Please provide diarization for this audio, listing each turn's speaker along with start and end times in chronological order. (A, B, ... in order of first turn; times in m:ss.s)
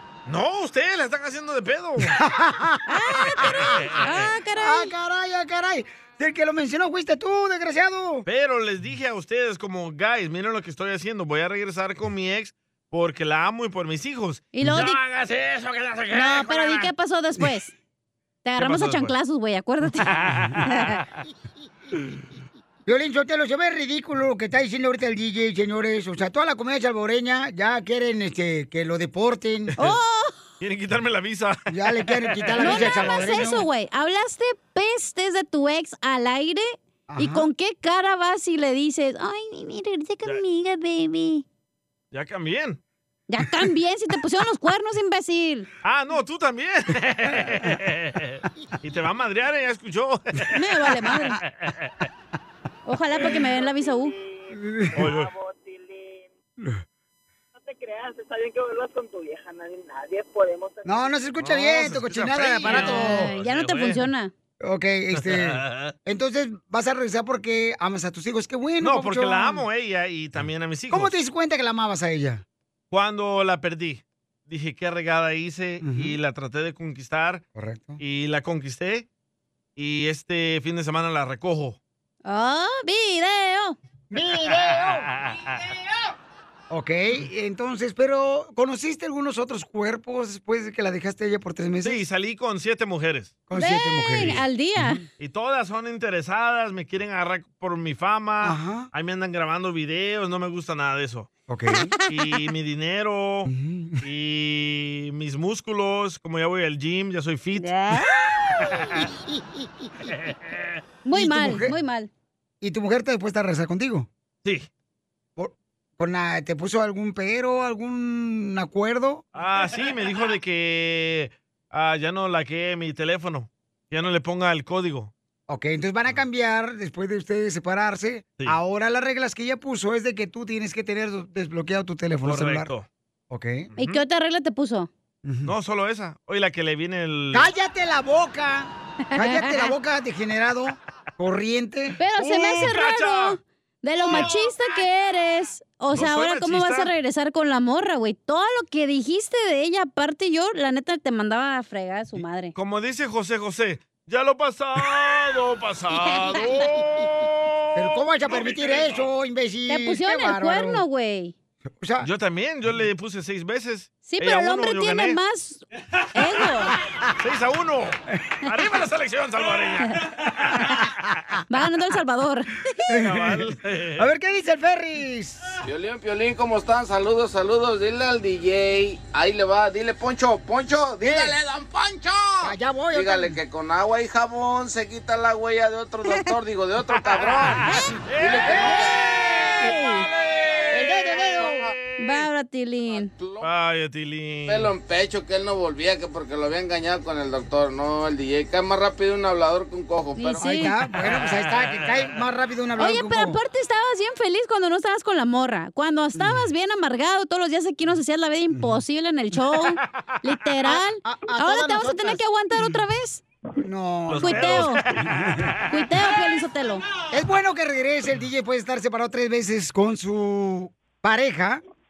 0:00.2-0:02.2 A
0:02.0-0:03.9 B
0:02.9-0:04.9 C
0:03.4-0:04.0 A
0:04.5-0:08.2 B
0:08.2-0:16.9 A
0:14.5-0:15.0 C
0:16.1-0:17.7 C
0:18.4-0:21.0 C
0:18.6-0:19.1 A
0:20.0-0:21.0 A
0:22.9-0:29.7 B
0:29.8-0:30.4 C
0:30.6-0:33.4 A
0:31.7-0:33.7 B
0:32.6-0:41.4 C
0:37.1-0:37.5 B
0:42.1-0:42.8 A
0:43.3-0:45.7 C
0:45.8-0:50.9 A
0:50.5-0:51.4 C
0:51.4-0:51.9 A
0:52.8-0:54.1 C
0:54.5-0:55.1 B
0:54.9-0:55.3 A
0:55.4-0:55.7 D
0:57.7-1:01.1 D
1:00.8-1:03.3 B
1:01.4-1:04.1 A
1:02.7-1:04.3 C
1:04.6-1:09.6 B
1:05.1-1:05.9 A
1:08.8-1:11.2 A
1:10.9-1:12.4 B
1:12.9-1:17.4 A
1:15.8-1:16.2 B
1:17.5-1:18.0 B
1:18.0-1:19.0 A
1:19.8-1:21.8 A
1:22.2-1:23.8 C
1:24.1-1:25.1 B
1:24.6-1:25.4 A
1:26.7-1:32.0 B
1:31.8-1:33.4 A
1:33.5-1:35.0 B
1:33.5-1:35.0 C
1:35.2-1:41.3 A
1:38.4-1:38.9 B
1:41.5-1:41.9 B
1:42.0-1:43.5 A
1:43.4-1:44.0 B
1:44.0-1:47.8 A
1:51.0-1:52.1 C
1:51.1-1:51.8 B
1:52.6-1:54.1 B
1:55.4-1:59.2 B
1:59.3-2:05.1 A
2:05.5-2:12.7 B
2:12.2-2:12.9 A
2:13.3-2:13.7 B
2:13.8-2:14.9 C
2:15.2-2:15.5 B
2:15.4-2:17.5 A
2:17.3-2:22.0 B
2:19.2-2:19.7 C
2:22.0-2:32.5 C
2:22.2-2:23.4 A
2:24.0-2:24.4 A
2:25.9-2:26.9 A
2:32.5-2:39.1 A
2:37.7-2:40.8 B
2:39.7-2:41.3 C
2:41.7-2:42.1 B
2:42.0-2:45.2 A
2:44.0-2:45.6 C
2:46.1-2:46.8 C
2:47.1-2:50.8 A
2:51.5-2:52.5 C
2:52.9-2:55.5 B
2:52.9-2:54.0 A
2:55.6-3:07.6 E
3:01.0-3:01.4 B
3:02.4-3:03.4 B
3:07.4-3:12.2 A
3:08.2-3:08.9 E
3:08.5-3:09.7 B
3:09.6-3:10.1 C
3:10.7-3:11.7 B
3:12.0-3:13.1 C
3:12.9-3:13.5 E
3:13.4-3:14.7 A
3:14.5-3:20.4 E
3:20.2-3:20.7 C
3:20.4-3:23.4 B
3:21.0-3:22.1 A
3:22.8-3:33.2 C
3:26.1-3:26.5 B
3:28.5-3:28.8 B
3:30.6-3:32.8 B
3:33.6-3:35.5 B
3:34.1-3:35.9 A
3:34.2-3:34.8 C
3:35.7-3:36.8 C
3:37.1-3:41.6 B